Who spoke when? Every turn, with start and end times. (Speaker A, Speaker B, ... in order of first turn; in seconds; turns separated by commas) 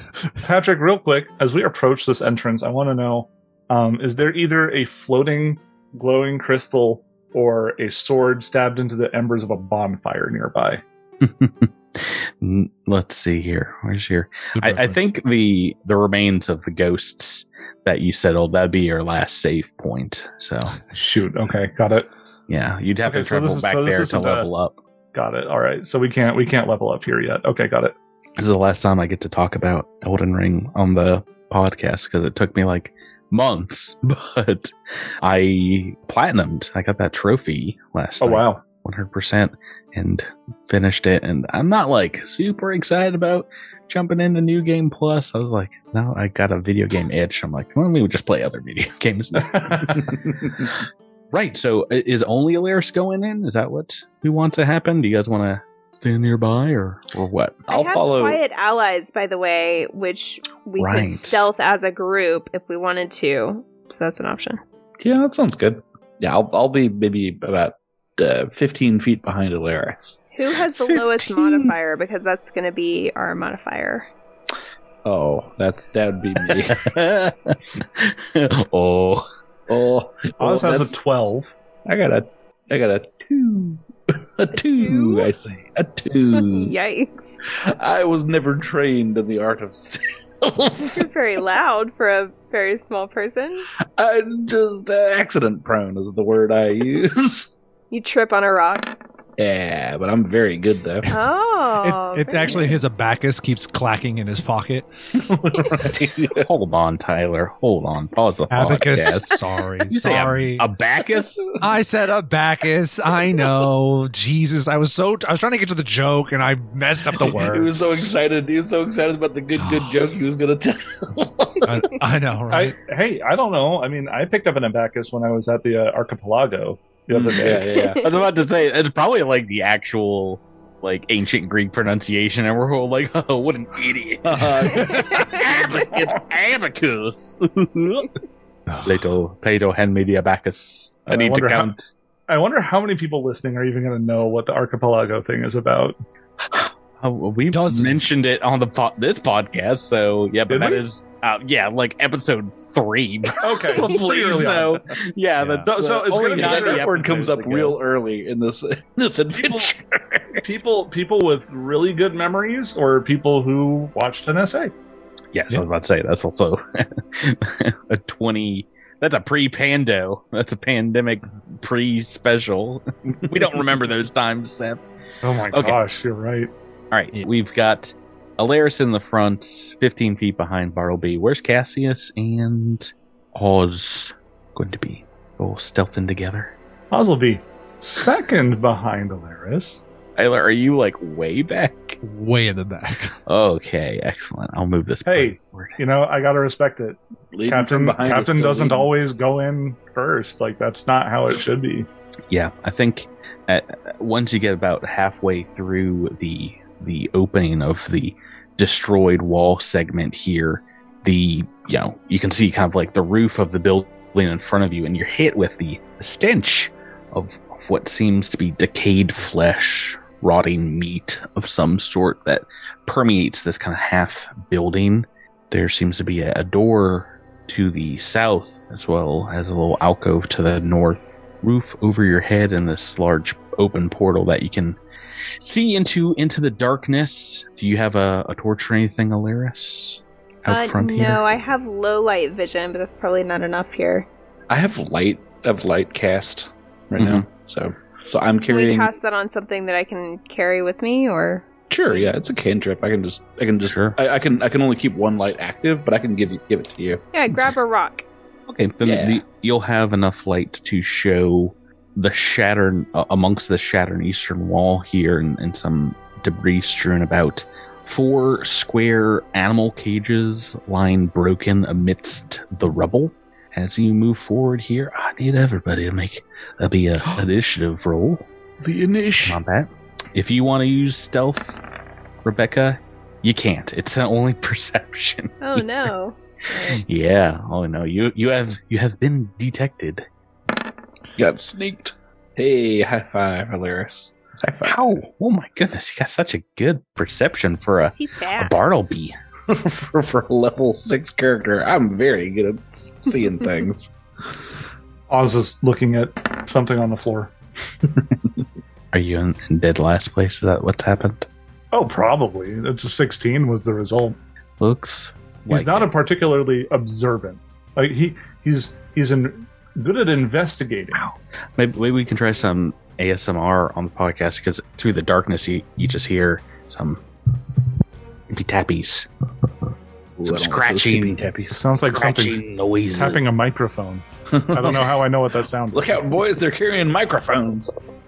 Speaker A: 0.4-10.8, Speaker B: 11.2-20.8, Speaker C: 14.6-15.0, Speaker A: 20.9-22.1, Speaker B: 22.5-24.8, Speaker A: 23.0-24.5, Speaker A: 25.1-27.9, Speaker B: 28.4-50.7, Speaker A: 38.2-38.6, Speaker A: 49.5-49.9, Speaker D: 50.1-50.6, Speaker B: 51.3-57.7, Speaker E: 57.7-64.6, Speaker D: 57.7-58.4, Speaker B: 60.8-61.5, Speaker D: 65.0-70.2, Speaker E: 70.3-74.1, Speaker B: 70.9-71.6, Speaker D: 75.0-76.9, Speaker B: 76.5-79.2, Speaker D: 79.7-81.0, Speaker A: 80.4-81.5, Speaker D: 81.8-86.7, Speaker E: 84.5-85.3, Speaker E: 86.3-87.4, Speaker D: 87.5-91.1, Speaker E: 90.8-93.7, Speaker D: 94.0-97.5, Speaker E: 97.9-98.9, Speaker D: 99.4-101.1, Speaker E: 101.1-102.8, Speaker C: 101.8-104.9, Speaker D: 105.1-106.5, Speaker B: 106.3-109.3, Speaker C: 108.5-110.7, Speaker B: 109.9-111.5, Speaker C: 111.6-117.7, Speaker D: 117.1-121.7, Speaker C: 119.6-120.0, Speaker C: 121.6-122.8, Speaker A: 122.5-127.7, Speaker D: 127.1-128.0, Speaker E: 127.7-128.1, Speaker B: 128.0-138.1, Speaker D: 134.2-135.9, Speaker C: 138.7-139.1, Speaker B: 138.8-141.9, Speaker A: 141.1-141.8, Speaker A: 142.3-145.9, Speaker B: 146.5-157.8, Speaker C: 147.5-148.2, Speaker A: 150.5-150.8, Speaker A: 153.4-154.8, Speaker C: 155.4-155.7, Speaker A: 155.6-157.2, Speaker D: 156.1-160.4, Speaker A: 160.4-164.7, Speaker B: 165.3-174.8, Speaker A: 175.2-176.5, Speaker B: 175.5-175.8, Speaker B: 176.9-186.5, Speaker A: 186.9-189.8, Speaker B: 190.2-192.0, Speaker C: 192.0-193.2, Speaker B: 193.3-195.8, Speaker A: 195.0-201.9, Speaker D: 197.3-198.9, Speaker B: 202.3-234.8, Speaker B: 235.4-241.2, Speaker E: 240.5-244.1, Speaker D: 244.5-248.9, Speaker B: 247.0-247.2, Speaker E: 248.5-252.1, Speaker D: 251.7-257.0, Speaker B: 253.7-254.0, Speaker E: 257.1-258.0, Speaker B: 258.5-278.3, Speaker D: 258.8-259.2, Speaker D: 278.6-279.4, Speaker B: 279.2-281.6, Speaker B: 282.2-285.6, Speaker E: 285.4-286.8, Speaker B: 286.7-290.1, Speaker D: 291.1-294.9, Speaker B: 294.6-299.1, Speaker E: 297.9-298.7, Speaker D: 299.5-303.9, Speaker A: 305.1-307.3, Speaker B: 308.9-311.3, Speaker A: 311.7-314.2, Speaker B: 314.6-315.9, Speaker A: 315.5-321.0, Speaker B: 320.9-327.0, Speaker B: 328.3-329.1, Speaker D: 330.2-331.6, Speaker B: 330.2-331.3, Speaker A: 331.5-336.2, Speaker B: 331.9-333.3, Speaker D: 334.3-334.9, Speaker D: 335.7-337.7